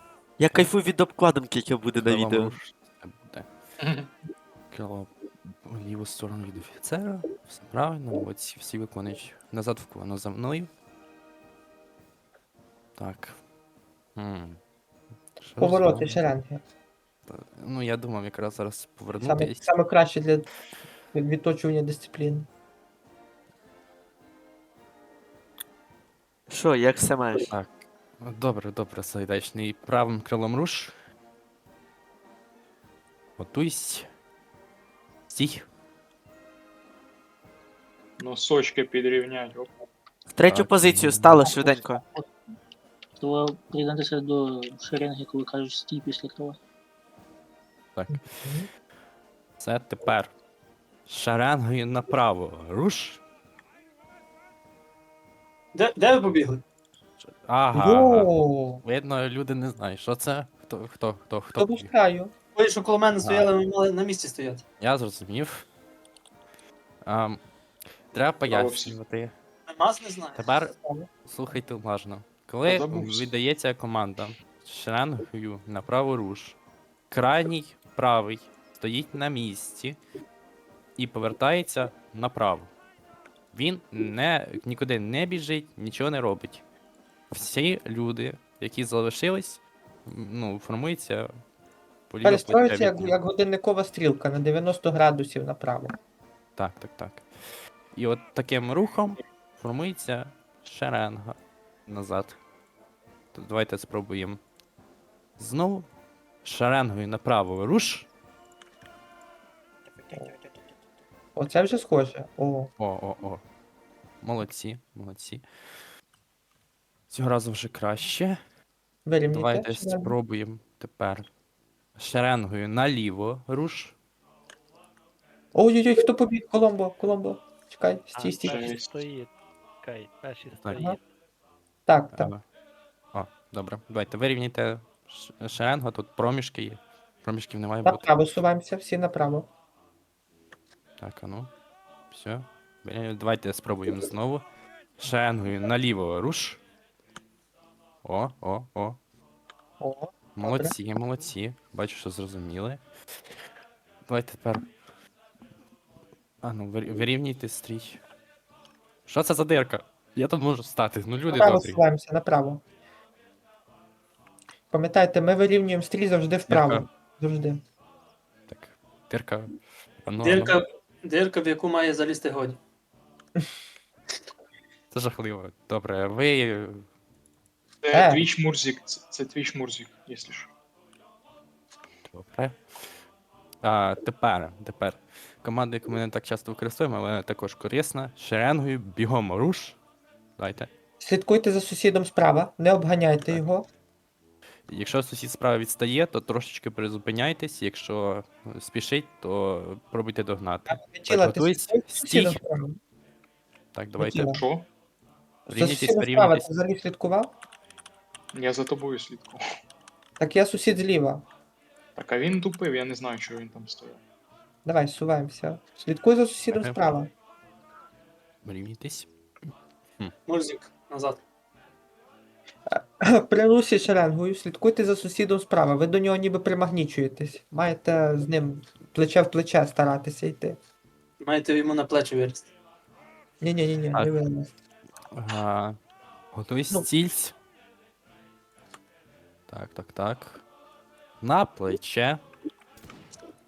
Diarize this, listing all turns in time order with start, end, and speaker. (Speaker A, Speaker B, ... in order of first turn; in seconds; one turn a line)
Speaker A: 0.4-2.5
Speaker B: 2.0-3.5
Speaker C: 3.8-4.1
Speaker B: 4.7-10.7
Speaker B: 13.0-13.4
Speaker B: 14.2-14.6
Speaker B: 15.4-16.2
Speaker D: 15.6-16.6
Speaker B: 17.3-19.7
Speaker D: 19.2-20.5
Speaker D: 21.1-22.5
Speaker A: 26.5-27.5
Speaker B: 27.5-30.9
Speaker B: 33.4-34.1
Speaker B: 35.3-35.7
Speaker C: 38.2-39.7
Speaker A: 40.3-42.0
Speaker B: 40.5-41.4
Speaker D: 41.5-42.2
Speaker E: 43.2-46.6
Speaker B: 47.9-48.4
Speaker D: 48.1-48.7
Speaker B: 49.6-50.3
Speaker B: 51.1-53.2
Speaker F: 55.7-56.6
Speaker B: 57.2-58.3
Speaker D: 57.7-58.8
Speaker B: 58.8-61.9
Speaker D: 61.6-62.3
Speaker F: 62.5-64.6
Speaker B: 63.2-63.5
Speaker B: 64.8-65.7
Speaker B: 67.0-67.4
Speaker B: 68.1-69.3
Speaker C: 68.5-69.0
Speaker F: 69.7-70.4
Speaker B: 70.3-70.7
Speaker D: 70.7-71.1
Speaker B: 71.2-76.6
Speaker C: 72.7-73.3
Speaker B: 77.1-80.0
Speaker B: 81.0-82.7
Speaker B: 83.5-86.6
Speaker B: 87.3-91.3
Speaker B: 92.1-93.1
Speaker D: 92.2-96.0
Speaker B: 96.6-97.3
Speaker B: 97.9-102.4
Speaker B: 103.3-104.4
Speaker B: 105.4-105.8
Speaker B: 106.4-108.1
Speaker D: 111.3-112.7
Speaker B: 112.8-113.4
Speaker B: 114.2-115.4
Speaker B: 117.1-118.4
Speaker D: 119.0-120.1
Speaker B: 119.3-121.3
Speaker B: 122.0-123.9
Speaker D: 125.5-128.8
Speaker G: 128.1-129.3
Speaker C: 128.4-129.0
Speaker G: 129.8-131.0
Speaker B: 130.5-130.8
Speaker D: 130.7-131.0
Speaker D: 131.9-132.3
Speaker B: 132.2-132.4
Speaker B: 133.1-138.1
Speaker D: 137.8-139.5
Speaker B: 141.0-141.5
Speaker B: 142.1-144.4
Speaker B: 145.0-146.6
Speaker B: 148.0-149.0
Speaker D: 149.8-150.7
Speaker B: 150.3-153.3
Speaker B: 154.1-154.7
Speaker B: 156.4-158.0
Speaker B: 159.1-161.8
Speaker D: 161.3-162.6
Speaker D: 164.7-167.6
Speaker B: 166.5-166.8
Speaker B: 168.5-170.6
Speaker F: 170.2-172.6
Speaker B: 174.9-176.8
Speaker C: 177.8-180.5
Speaker D: 177.9-178.2
Speaker B: 182.1-182.9
Speaker B: 183.6-189.8
Speaker B: 190.4-190.7
Speaker D: 191.0-193.7
Speaker B: 194.7-202.4
Speaker D: 200.7-202.8
Speaker B: 203.7-204.4
Speaker D: 204.0-204.4
Speaker C: 204.3-204.7
Speaker B: 205.5-206.5
Speaker D: 205.5-207.3
Speaker C: 208.3-209.4
Speaker D: 210.2-211.2
Speaker C: 211.9-214.0
Speaker D: 214.6-217.1
Speaker B: 216.5-216.8
Speaker B: 218.4-219.1
Speaker F: 220.3-221.2
Speaker D: 222.7-230.6
Speaker F: 231.2-232.5
Speaker D: 233.4-234.5
Speaker B: 235.1-235.8
Speaker B: 236.3-237.3
Speaker B: 239.5-240.4
Speaker B: 241.2-242.2